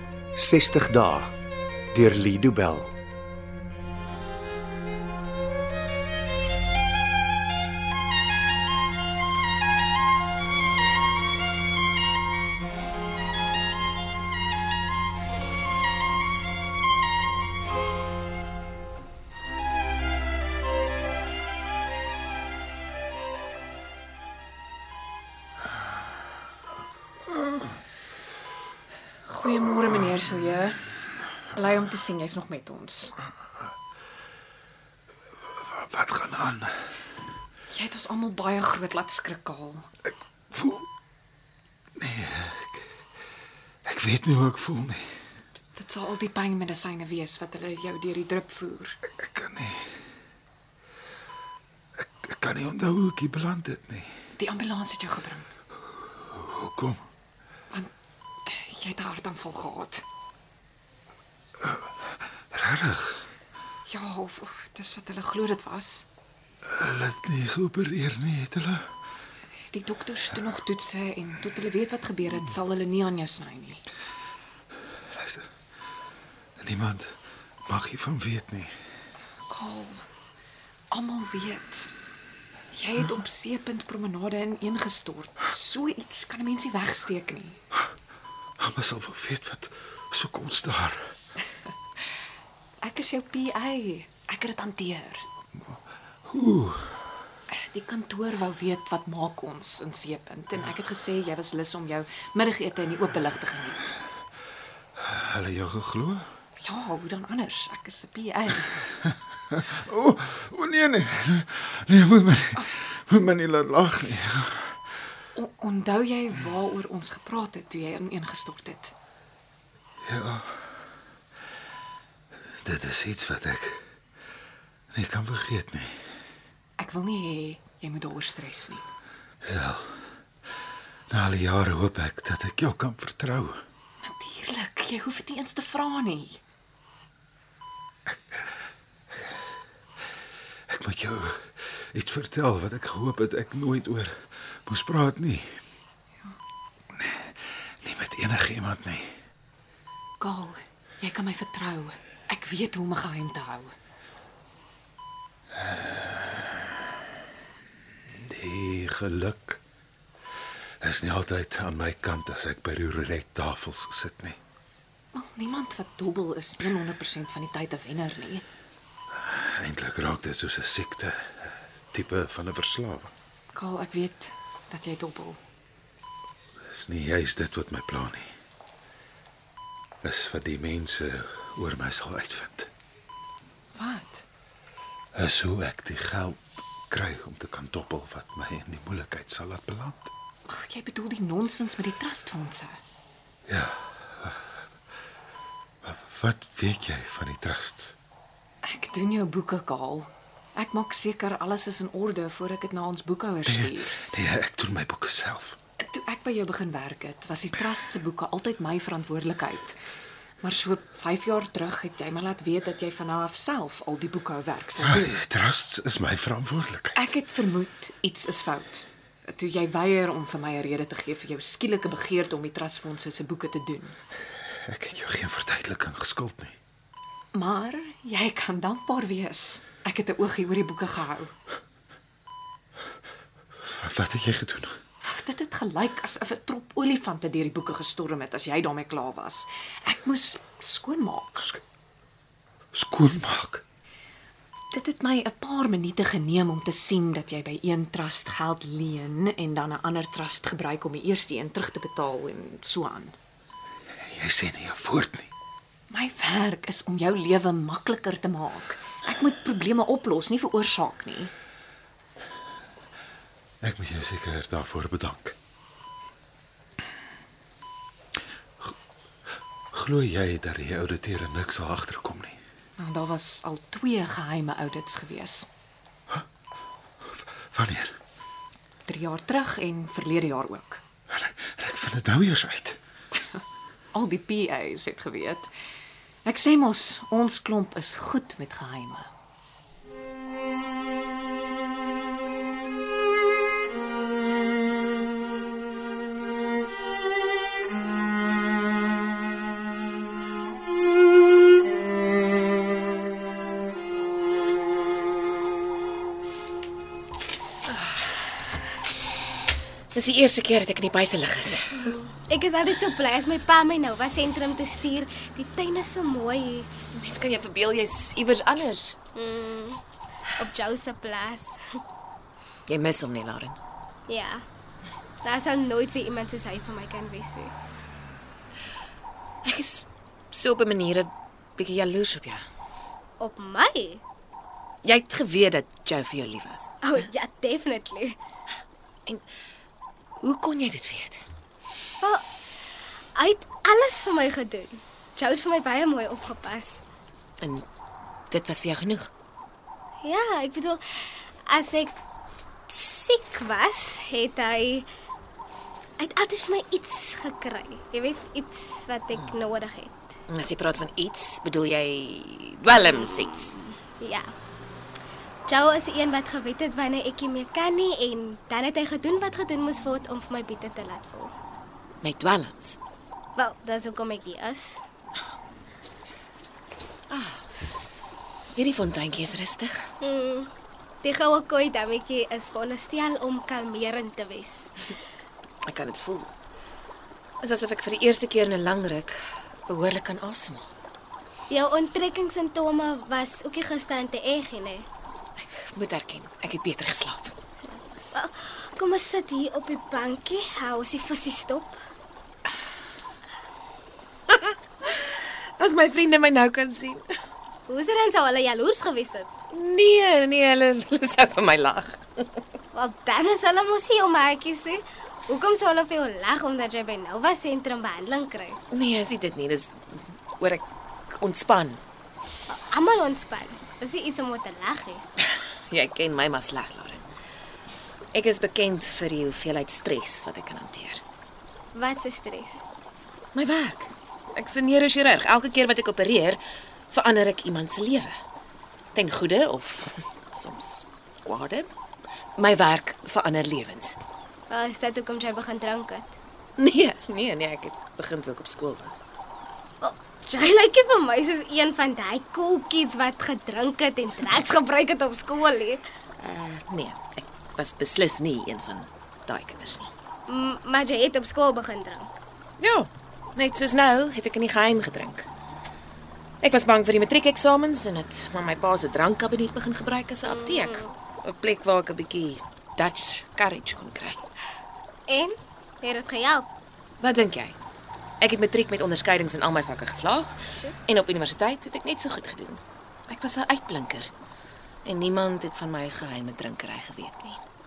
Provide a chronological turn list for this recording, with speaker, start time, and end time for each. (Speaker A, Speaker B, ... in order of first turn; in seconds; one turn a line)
Speaker A: 0.4-1.3
Speaker A: 1.9-2.9
Speaker B: 29.2-31.0
Speaker B: 31.5-33.1
Speaker C: 35.7-36.8
Speaker B: 37.7-39.9
Speaker C: 40.5-40.9
Speaker C: 42.0-42.9
Speaker C: 43.9-45.1
Speaker B: 45.8-49.0
Speaker C: 49.2-49.9
Speaker C: 52.0-54.1
Speaker B: 54.4-55.5
Speaker C: 56.2-57.0
Speaker B: 58.5-60.0
Speaker C: 62.5-63.2
Speaker B: 63.9-66.0
Speaker C: 66.6-68.9
Speaker B: 69.6-73.8
Speaker C: 75.1-75.4
Speaker C: 76.6-77.1
Speaker C: 77.7-78.7
Speaker B: 79.5-80.0
Speaker B: 80.9-81.9
Speaker B: 82.7-87.6
Speaker C: 88.6-91.1
Speaker B: 92.8-95.2
Speaker C: 96.3-97.0
Speaker B: 97.5-103.9
Speaker C: 105.0-106.3
Speaker B: 106.6-108.9
Speaker C: 109.5-114.8
Speaker B: 115.3-118.9
Speaker C: 120.0-120.7
Speaker C: 122.6-123.8
Speaker C: 124.9-126.0
Speaker B: 126.8-128.8
Speaker C: 129.4-130.0
Speaker C: 131.1-133.6
Speaker B: 134.0-136.4
Speaker C: 140.7-145.6
Speaker C: 147.0-147.3
Speaker C: 147.8-149.2
Speaker B: 150.2-153.7
Speaker C: 155.6-156.5
Speaker C: 158.2-159.6
Speaker C: 160.8-164.4
Speaker B: 165.1-168.4
Speaker C: 169.2-173.1
Speaker B: 173.5-175.4
Speaker C: 176.7-178.3
Speaker C: 180.0-182.7
Speaker B: 183.8-184.2
Speaker C: 185.2-190.1
Speaker B: 190.5-192.8
Speaker C: 193.5-194.4
Speaker C: 195.8-197.9
Speaker B: 198.6-203.9
Speaker C: 203.5-205.6
Speaker B: 205.8-209.8
Speaker B: 210.4-215.2
Speaker C: 214.9-217.1
Speaker B: 216.9-224.0
Speaker C: 224.5-226.6
Speaker B: 227.3-231.3
Speaker C: 233.6-234.8
Speaker B: 235.0-241.6
Speaker C: 242.7-243.6
Speaker B: 244.7-253.2
Speaker C: 254.0-255.3
Speaker B: 255.9-261.3
Speaker C: 263.6-265.4
Speaker C: 269.7-272.4
Speaker B: 272.8-275.5
Speaker C: 277.1-278.0
Speaker B: 278.9-280.8
Speaker C: 281.1-282.8
Speaker B: 283.9-285.5
Speaker B: 286.3-289.1
Speaker D: 309.9-311.9
Speaker E: 311.9-316.7
Speaker D: 316.9-319.0
Speaker E: 319.1-319.8
Speaker E: 320.4-321.6
Speaker D: 322.7-323.6
Speaker E: 324.1-324.4
Speaker E: 325.2-327.5
Speaker D: 329.4-332.4
Speaker E: 333.2-334.0
Speaker D: 334.9-336.7
Speaker E: 336.8-338.2
Speaker D: 340.2-341.2
Speaker E: 343.2-346.8
Speaker D: 348.3-349.1
Speaker E: 350.0-351.9
Speaker E: 352.7-354.9
Speaker E: 356.0-360.0
Speaker D: 360.3-363.7
Speaker E: 363.9-364.3
Speaker E: 365.5-371.3
Speaker D: 372.0-372.8
Speaker E: 373.4-374.8
Speaker D: 377.1-377.4
Speaker D: 378.6-379.8
Speaker E: 380.0-380.5
Speaker E: 381.0-384.7
Speaker D: 385.7-386.3
Speaker D: 387.4-389.1
Speaker D: 389.7-390.7
Speaker E: 391.5-394.9
Speaker D: 395.4-397.3
Speaker E: 397.7-401.8
Speaker D: 404.3-407.0
Speaker E: 407.7-409.3
Speaker D: 409.5-412.4
Speaker E: 412.7-418.6
Speaker D: 418.7-421.8
Speaker E: 422.5-425.1
Speaker D: 425.7-427.1
Speaker D: 428.1-431.0
Speaker E: 431.8-432.6
Speaker D: 433.3-436.4
Speaker D: 436.9-438.1
Speaker D: 438.9-441.7
Speaker D: 442.4-444.0
Speaker E: 444.5-446.1
Speaker D: 446.6-449.0
Speaker E: 449.8-455.8
Speaker D: 456.2-459.9
Speaker E: 460.3-462.1
Speaker D: 462.6-465.3
Speaker D: 466.4-474.2
Speaker E: 470.2-470.9
Speaker E: 475.1-476.5
Speaker D: 477.0-477.6
Speaker D: 478.2-484.1
Speaker D: 484.9-487.4